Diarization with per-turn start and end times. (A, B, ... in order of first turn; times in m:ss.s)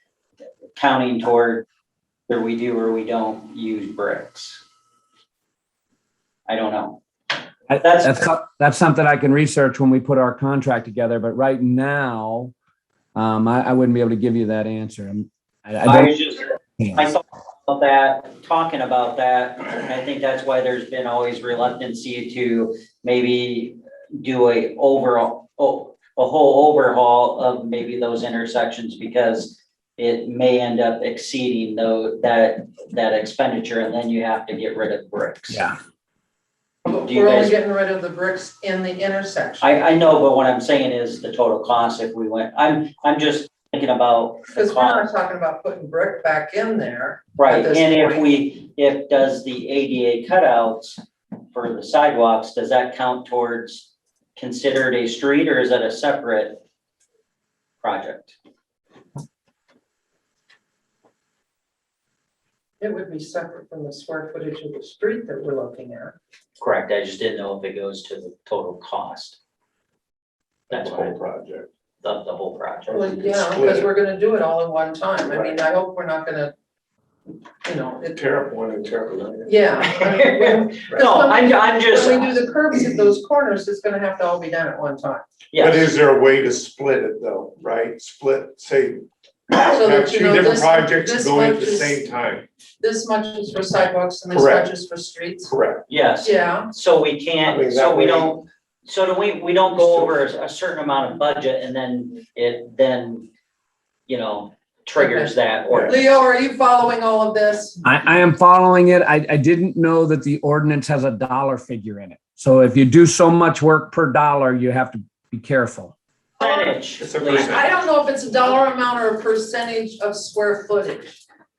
0:00.8-0:01.6 A
0:02.3-0:04.6 A
0:06.5-0:07.0 A
0:07.7-0:08.3 A
0:07.7-0:12.5 B
0:13.2-0:16.2 B
0:15.8-0:35.6 A
0:16.8-0:17.1 B
0:35.5-0:35.8 B
0:36.9-0:39.7 C
0:36.9-0:37.6 A
0:39.6-0:45.1 A
0:44.6-0:48.3 C
0:47.4-0:51.0 A
0:51.5-0:56.6 A
0:57.8-0:58.4 A
1:02.8-1:06.2 C
1:06.6-1:09.4 A
1:10.7-1:11.2 A
1:10.7-1:11.7 D
1:12.0-1:13.2 A
1:12.9-1:16.5 C
1:13.2-1:13.9 D
1:15.2-1:15.6 D
1:17.6-1:18.2 C
1:18.2-1:19.6 D
1:19.4-1:25.2 C
1:19.8-1:22.3 A
1:25.5-1:25.9 A
1:25.6-1:32.5 D
1:29.5-1:32.0 C
1:32.8-1:35.5 C
1:34.3-1:34.7 D
1:35.5-1:35.8 D
1:35.9-1:43.3 A
1:36.2-1:36.7 C
1:37.4-1:38.4 D
1:39.8-1:40.2 D
1:44.1-1:46.0 A
1:45.0-1:47.8 C
1:45.7-1:46.0 D
1:47.8-1:55.9 B
1:56.4-1:56.7 C
1:56.4-1:57.6 A
1:57.0-1:57.7 D
1:57.4-2:01.1 C